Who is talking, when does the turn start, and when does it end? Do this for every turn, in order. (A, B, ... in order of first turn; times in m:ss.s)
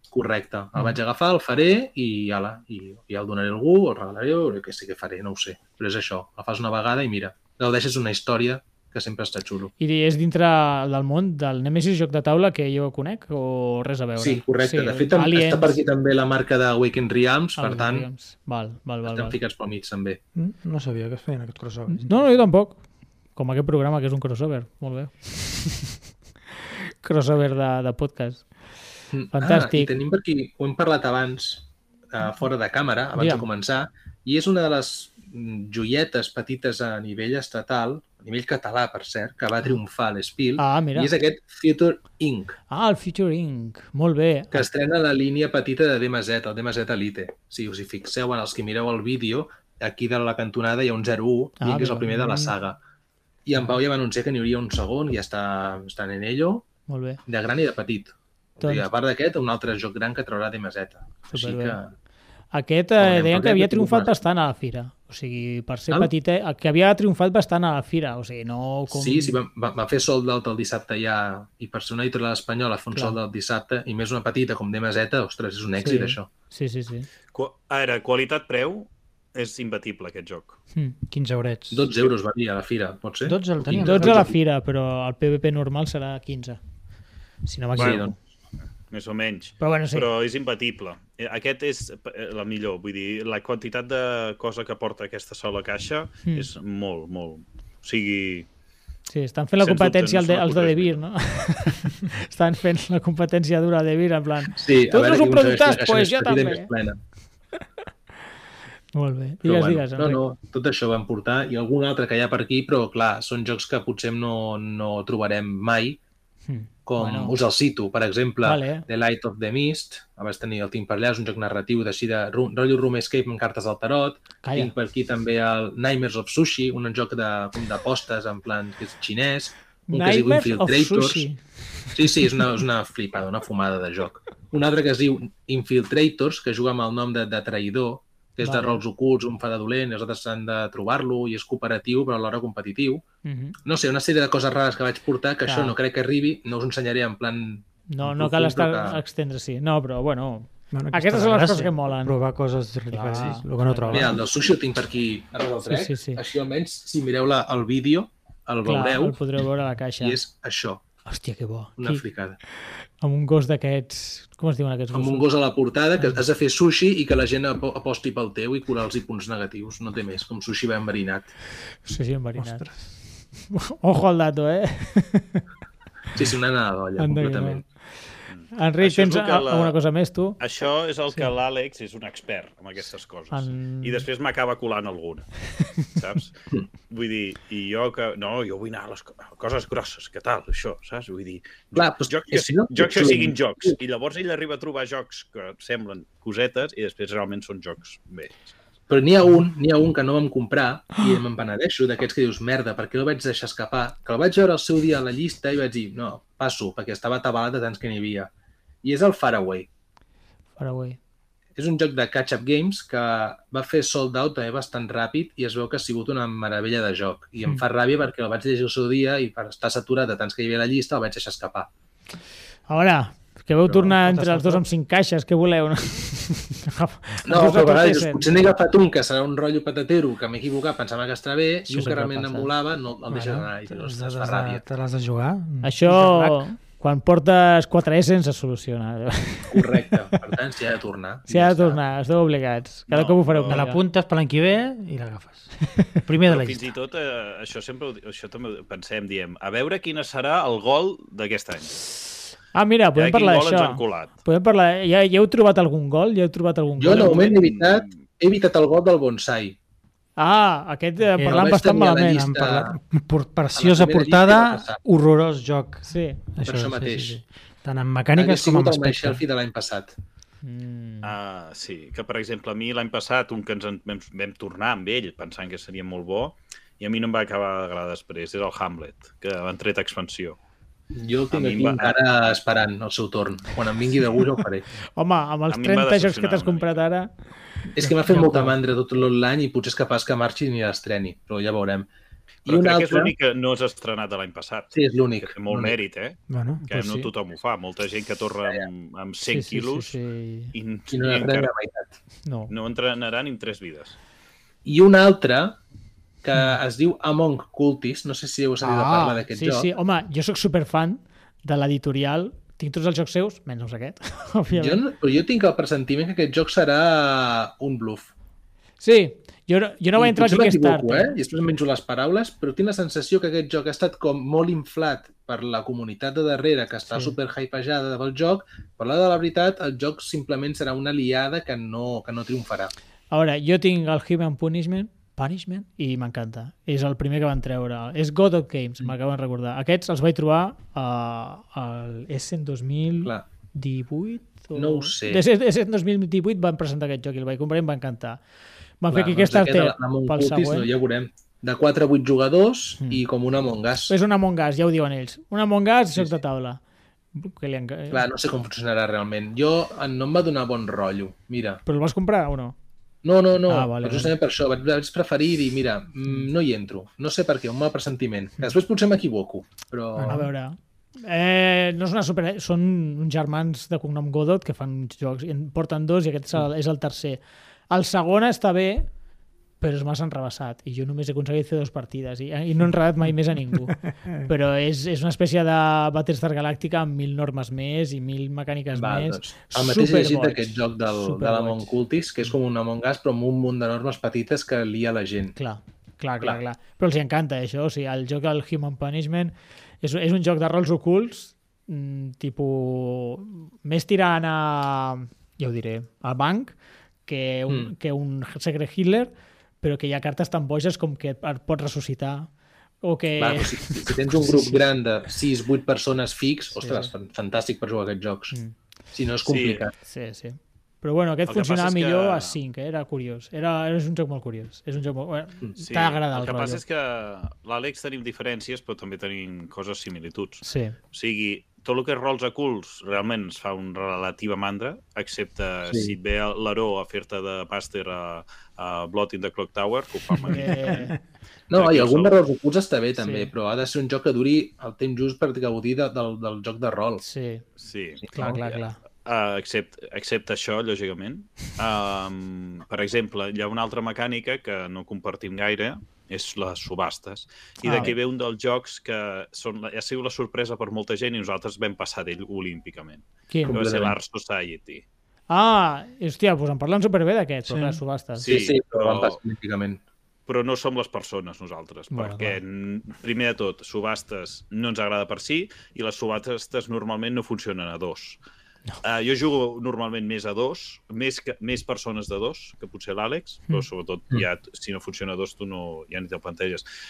0:00.1-0:09.7 A
0:09.8-0:15.8 B
0:14.2-0:18.1 A
0:17.6-0:19.4 B
0:19.0-0:20.2 A
0:20.3-0:22.3 C
0:21.9-0:22.8 B
0:23.3-0:25.9 B
0:27.0-0:28.5 B
0:29.1-0:42.6 A
0:29.3-0:29.9 B
0:33.2-0:33.4 B
0:40.6-0:41.1 B
0:42.7-0:44.7 B
0:44.5-0:52.8 A
0:51.6-0:52.5 B
0:53.4-0:56.7 A
0:56.9-0:57.2 B
0:57.2-1:01.9 A
0:58.6-0:58.9 B
1:01.3-1:01.8 B
1:02.5-1:09.4 B
1:03.0-1:04.1 A
1:08.9-1:16.3 A
1:12.9-1:13.2 B
1:15.8-1:17.1 B
1:17.3-1:20.6 D
1:21.1-1:21.9 C
1:21.7-1:24.4 A
1:23.2-1:24.3 C
1:23.8-1:26.6 B
1:27.4-1:28.1 B
1:27.8-1:28.1 A
1:28.9-1:38.5 D
1:29.6-1:30.1 B
1:39.1-1:46.7 B
1:39.6-1:41.0 D
1:44.5-1:47.0 A
1:48.9-1:50.2 B
1:49.4-1:56.0 A
1:56.5-1:57.4 B
1:56.8-2:11.2 A
1:58.4-1:58.8 B
2:04.4-2:04.7 B
2:09.9-2:11.4 B
2:11.9-2:23.0 A
2:18.4-2:18.8 B
2:23.2-2:23.6 B
2:23.6-2:29.0 A
2:25.4-2:25.7 B
2:27.9-2:32.2 B
2:30.7-2:34.2 C
2:32.9-2:34.2 B
2:33.9-2:39.2 A
2:35.6-2:36.2 B
2:38.6-2:40.2 B
2:40.0-2:40.8 A
2:41.0-2:42.0 B
2:41.8-2:42.4 A
2:43.0-2:45.3 B
2:44.9-2:51.3 A
2:51.8-2:55.4 B
2:52.4-2:52.8 C
2:56.1-2:57.6 A
2:57.0-2:57.6 B
2:58.3-2:59.7 D
2:58.5-3:00.4 B
3:00.4-3:06.3 D
3:03.3-3:04.0 B
3:06.9-3:18.5 D
3:11.7-3:13.8 A
3:18.9-3:28.3 A
3:28.8-3:29.7 A
3:30.6-3:31.0 B
3:31.6-3:41.7 A
3:42.7-3:48.3 B
3:43.8-3:44.6 C
3:47.2-3:54.6 A
3:51.7-3:52.5 B
3:53.1-3:56.4 C
3:55.6-3:59.9 B
3:59.5-4:01.8 A
4:01.3-4:03.8 B
4:02.9-4:03.7 D
4:03.5-4:06.7 C
4:06.2-4:11.8 D
4:12.5-4:17.3 B
4:12.9-4:14.1 D
4:16.8-4:19.6 A
4:16.9-4:17.9 D
4:20.2-4:22.3 B
4:21.2-4:29.2 C
4:21.2-4:22.8 A
4:23.5-4:24.8 A
4:25.8-4:26.2 B
4:26.4-4:27.2 A
4:28.1-4:29.9 A
4:30.4-4:31.1 B
4:31.0-4:40.4 D
4:40.9-4:44.6 A
4:41.3-4:42.0 D
4:45.0-4:47.1 B
4:45.5-4:46.8 D
4:47.7-4:51.9 A
4:47.8-4:48.5 C
4:52.4-4:53.1 A
4:52.4-5:00.0 D
4:54.7-4:55.8 A
4:56.3-4:56.6 C
4:56.7-4:57.1 B
4:59.2-5:00.5 B
5:00.5-5:01.5 D
5:00.9-5:01.9 A
5:02.2-5:02.5 B
5:02.5-5:04.0 D
5:04.6-5:05.6 A
5:06.2-5:09.7 A
5:08.6-5:14.8 B
5:14.5-5:18.1 A
5:18.8-5:21.1 B
5:20.0-5:32.7 A
5:33.1-5:48.2 B
5:44.5-5:45.2 A
5:48.8-5:50.7 B
5:48.9-5:53.9 A
5:53.9-5:56.6 B
5:57.1-5:58.0 B
5:57.9-6:01.6 A
6:01.6-6:02.5 B
6:03.0-6:10.2 A
6:03.5-6:04.1 B
6:10.0-6:10.3 C
6:10.1-6:18.9 B
6:19.6-6:31.7 B
6:28.7-6:35.3 A
6:35.4-6:46.5 B
6:47.0-6:52.3 B
6:52.8-6:54.6 B
6:53.2-6:58.3 A
6:56.6-6:56.9 B
6:58.9-6:59.7 A
6:59.2-6:59.6 D
6:59.8-7:06.6 B
7:01.3-7:02.4 D
7:05.6-7:20.9 D
7:10.4-7:10.8 B
7:15.7-7:15.9 A
7:20.2-7:21.0 B
7:21.5-7:27.0 A
7:21.5-7:22.2 D
7:23.0-7:23.3 B
7:27.0-7:27.4 B
7:27.6-7:44.8 D
7:28.0-7:28.4 A
7:28.1-7:28.8 B
7:37.6-7:37.9 B
7:43.3-7:43.6 B
7:43.4-7:43.9 A
7:45.3-7:48.3 B
7:47.5-7:47.8 C
7:48.2-7:49.8 A
7:48.2-7:49.2 D
7:50.3-7:58.2 D
7:51.9-7:52.4 B
7:58.8-8:06.6 D